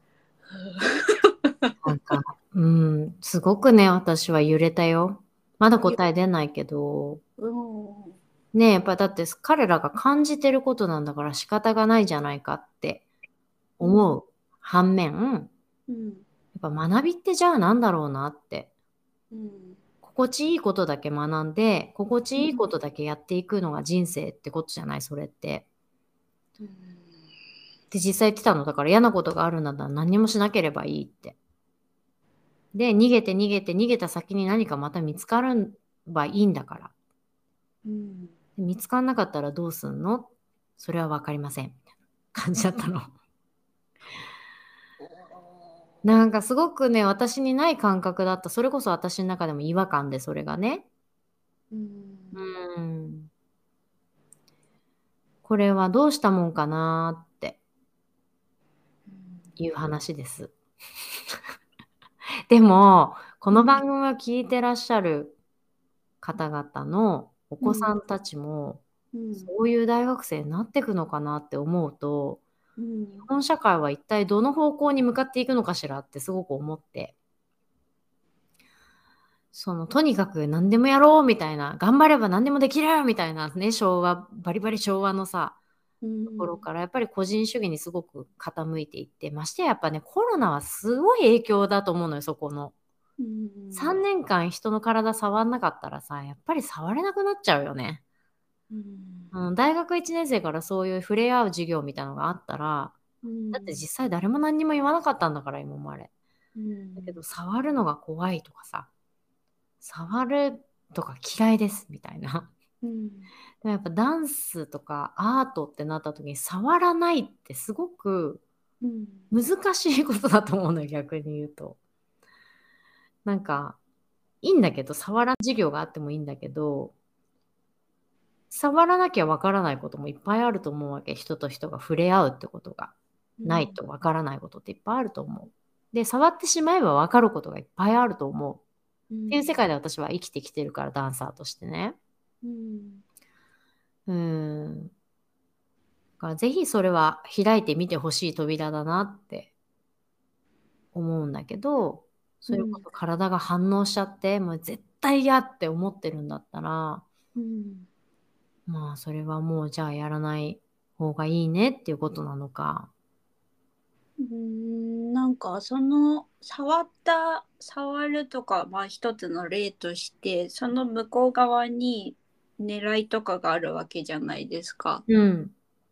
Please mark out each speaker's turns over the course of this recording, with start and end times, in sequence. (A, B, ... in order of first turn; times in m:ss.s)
0:00.5-0:01.7 A
0:01.8-0:07.2 B
0:07.4-0:08.2 A
0:08.5-0:13.0 B
0:13.8-0:15.5 B
0:15.9-0:16.2 A
0:16.5-0:18.7 B
0:19.3-0:19.8 A
0:20.0-0:25.6 B
0:22.4-0:22.7 A
0:26.6-0:27.0 A
0:27.9-0:31.4 B
0:32.7-0:36.9 B
0:37.8-0:38.3 A
0:38.6-0:41.8 B
0:42.3-0:43.1 B
0:45.0-0:45.8 A
0:46.0-0:50.8 B
0:51.7-0:52.5 A
0:52.3-0:53.3 B
0:55.4-0:57.6 B
0:59.1-0:59.5 A
0:59.6-1:00.5 B
1:02.5-1:05.4 B
1:03.5-1:03.8 A
1:06.2-1:08.8 B
1:07.6-1:07.9 A
1:09.1-1:09.5 A
1:09.4-1:12.4 B
1:12.8-1:13.3 A
1:13.2-1:17.1 B
1:19.5-1:25.6 B
1:26.0-1:26.6 A
1:26.3-1:32.7 B
1:33.2-1:34.0 A
1:33.7-1:38.0 B
1:38.7-1:39.3 A
1:39.3-1:43.0 B
1:43.2-1:43.8 A
1:43.5-1:46.1 B
1:46.5-1:47.2 A
1:47.0-1:48.9 B
1:49.8-1:52.5 B
1:52.8-1:53.3 A
1:53.6-1:58.4 B
1:58.8-1:59.3 A
1:59.3-2:01.8 B
2:03.2-2:03.8 B
2:04.4-2:06.9 B
2:08.5-2:12.9 B
2:13.4-2:13.8 A
2:13.4-2:18.6 B
2:19.1-2:19.4 A
2:19.3-2:22.0 B
2:22.4-2:23.0 A
2:24.1-2:24.9 B
2:26.2-2:29.5 B
2:30.9-2:37.0 B
2:32.5-2:32.8 A
2:37.4-2:37.9 A
2:38.7-2:42.9 B
2:44.2-2:55.0 A
2:55.1-2:55.5 B